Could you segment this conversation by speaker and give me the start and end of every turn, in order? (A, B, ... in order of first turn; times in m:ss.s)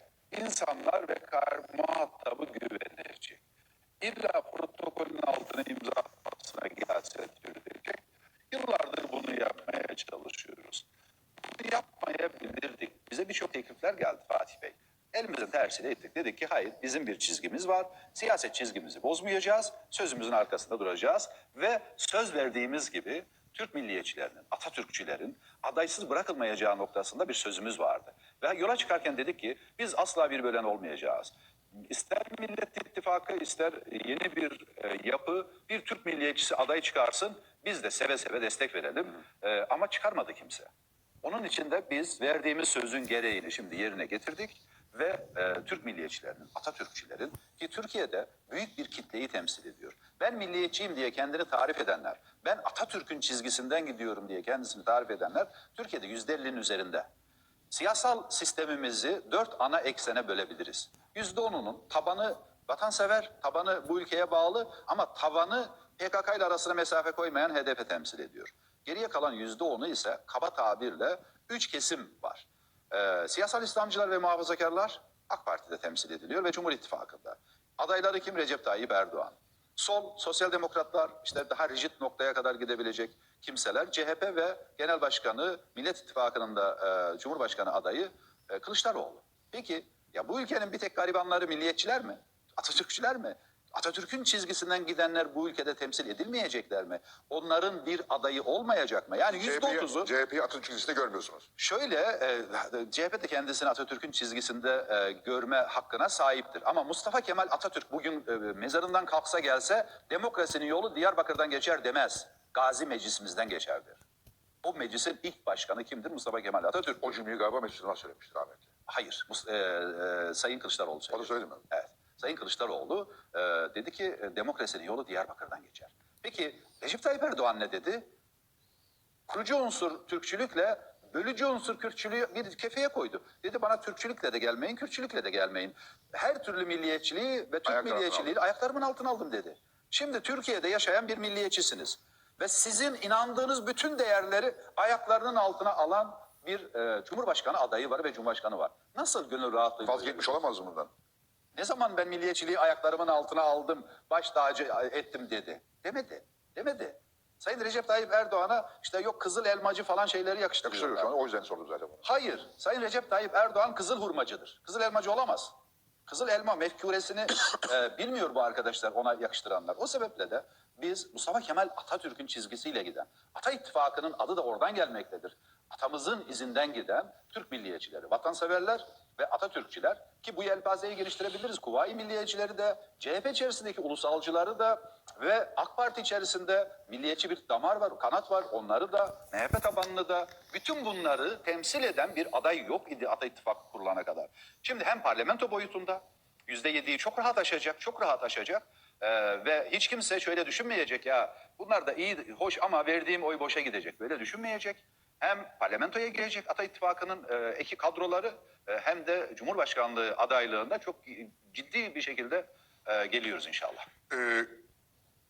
0:00.3-0:03.4 A
0:04.0-0:10.8 A
0:11.4-0:31.3 A
0:31.9-0:40.7 A
0:41.2-0:57.1 A
0:57.7-1:40.1 A
1:39.4-1:41.4 B
1:41.6-1:54.0 A
1:54.6-1:57.0 A
1:57.0-1:58.7 B
1:58.9-2:08.1 A
2:01.1-2:01.6 B
2:09.3-2:30.4 A
2:17.6-2:18.3 B
2:29.8-2:30.9 B
2:31.6-2:41.1 A
2:40.6-2:42.0 B
2:42.0-2:45.5 A
2:46.1-3:33.9 A
3:34.1-3:34.6 B